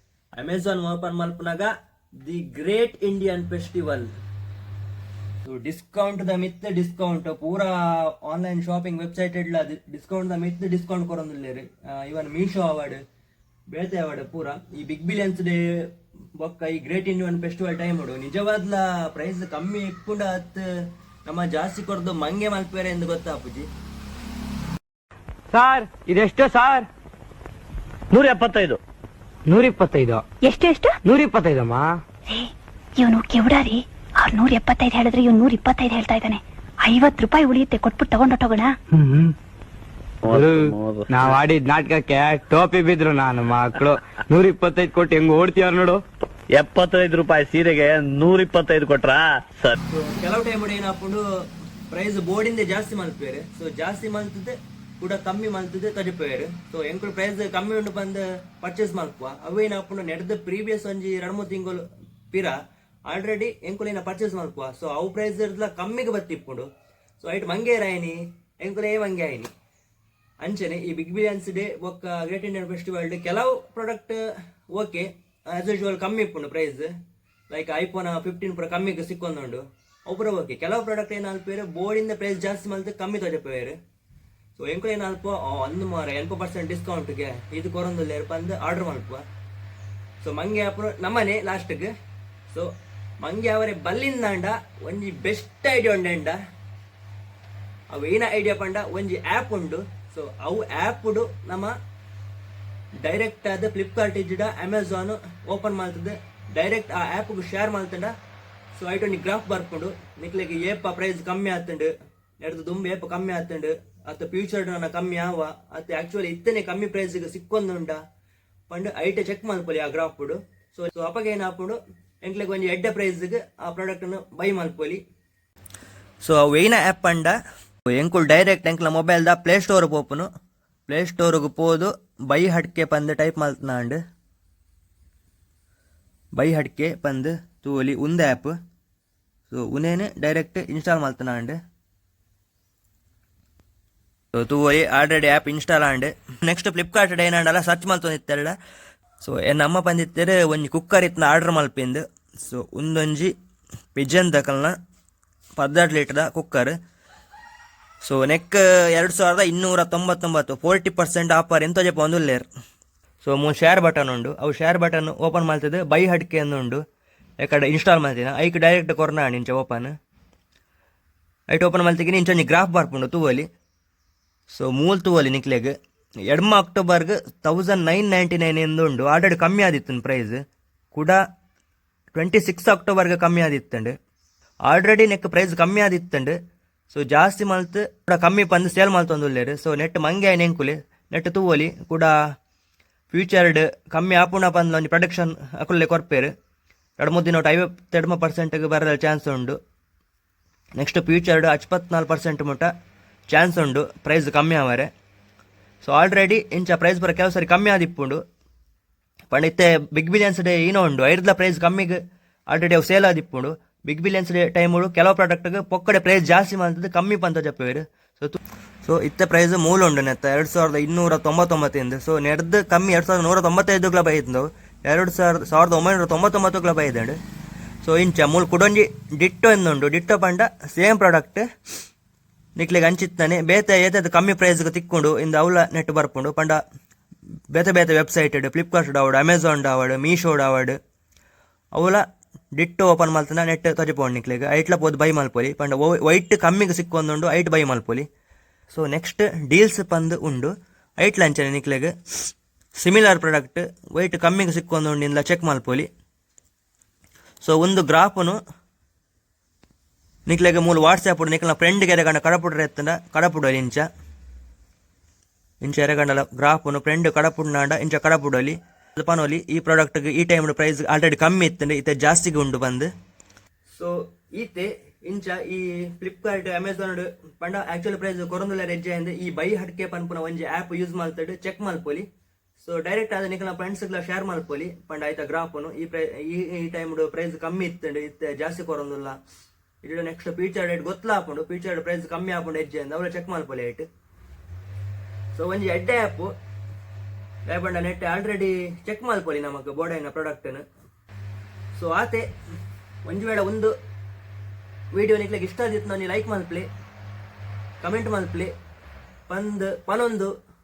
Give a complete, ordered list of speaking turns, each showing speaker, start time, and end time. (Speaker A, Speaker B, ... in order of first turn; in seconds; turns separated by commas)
Speaker A: 0.3-1.7, Speaker A: 2.2-4.1, Speaker A: 5.5-13.0, Speaker A: 13.7-15.6, Speaker A: 16.4-20.6, Speaker A: 21.2-23.7, Speaker B: 25.5-26.9, Speaker C: 28.1-28.8, Speaker B: 29.5-30.2, Speaker D: 30.4-31.0, Speaker B: 31.0-32.0, Speaker D: 32.3-38.7, Speaker B: 38.9-39.3, Speaker C: 40.2-41.4, Speaker B: 40.3-46.0, Speaker C: 46.5-49.8, Speaker A: 49.9-51.2, Speaker A: 51.9-62.6, Speaker A: 63.1-66.7, Speaker A: 67.2-69.5, Speaker A: 70.4-74.2, Speaker A: 74.7-76.9, Speaker A: 77.5-83.8, Speaker A: 84.6-89.2, Speaker A: 90.2-91.9, Speaker A: 93.2-96.4, Speaker A: 97.9-101.7, Speaker A: 103.0-108.1, Speaker A: 108.7-118.0, Speaker A: 118.7-125.0, Speaker A: 126.2-127.3, Speaker A: 127.9-130.3, Speaker A: 130.9-134.0, Speaker A: 136.3-138.6, Speaker A: 139.5-141.6, Speaker A: 144.3-148.6, Speaker A: 149.2-153.3, Speaker A: 153.9-154.8, Speaker A: 155.6-156.7, Speaker A: 158.0-162.5, Speaker A: 163.2-166.8, Speaker A: 167.4-169.9, Speaker A: 171.5-173.5, Speaker A: 174.5-175.7, Speaker A: 176.3-180.4, Speaker A: 180.9-181.2, Speaker A: 182.1-183.9, Speaker A: 184.7-186.3, Speaker A: 186.9-192.1, Speaker A: 193.1-196.3, Speaker A: 197.0-199.6, Speaker A: 200.8-202.7, Speaker A: 203.3-204.9, Speaker A: 205.8-208.2, Speaker A: 209.3-212.0, Speaker A: 212.5-227.2, Speaker A: 227.8-231.4, Speaker A: 232.6-236.6, Speaker A: 237.5-240.8, Speaker A: 241.7-242.0, Speaker A: 242.6-248.1, Speaker A: 248.7-251.9, Speaker A: 252.8-255.9, Speaker A: 257.4-258.4, Speaker A: 260.3-263.9, Speaker A: 265.6-272.9, Speaker A: 273.7-282.1, Speaker A: 282.6-289.1, Speaker A: 289.8-293.9, Speaker A: 295.3-296.3, Speaker A: 297.4-300.6, Speaker A: 301.7-302.2, Speaker A: 303.0-303.7, Speaker A: 304.9-306.7, Speaker A: 307.8-308.5, Speaker A: 309.3-310.3